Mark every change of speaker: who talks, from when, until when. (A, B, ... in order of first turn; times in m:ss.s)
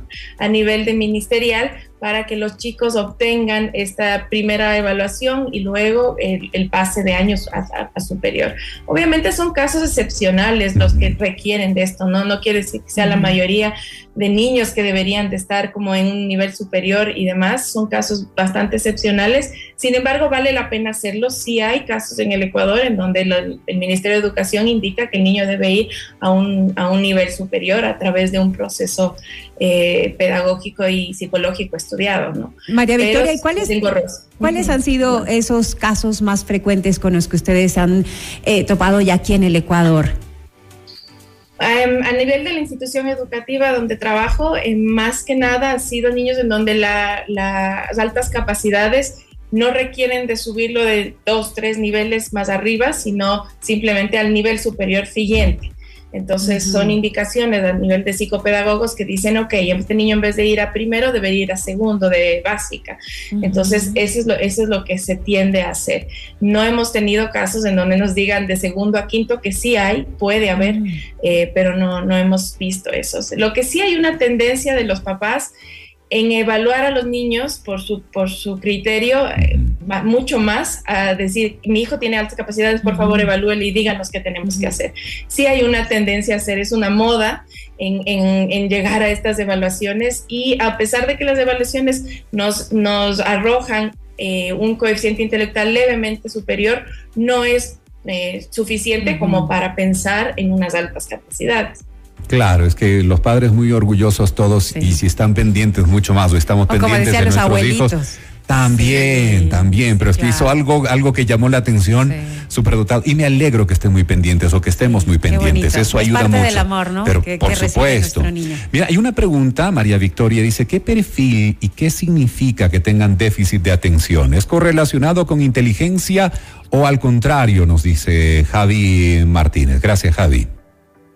0:00.4-0:35.3 A
0:10.8-0:11.1 B
0:13.0-0:13.4 C
0:32.7-0:33.8 C
0:34.4-0:40.1 C
0:41.6-1:15.5 A
0:56.4-0:57.0 C
1:03.3-1:04.0 C
1:10.6-1:11.0 C
1:16.1-1:41.8 A
1:22.8-1:23.3 C
1:24.5-1:24.7 C
1:39.0-1:39.5 C
1:42.3-1:47.9 B
1:46.7-1:50.5 C
1:48.5-2:10.5 B
1:52.0-1:52.4 C
1:54.8-1:58.6 C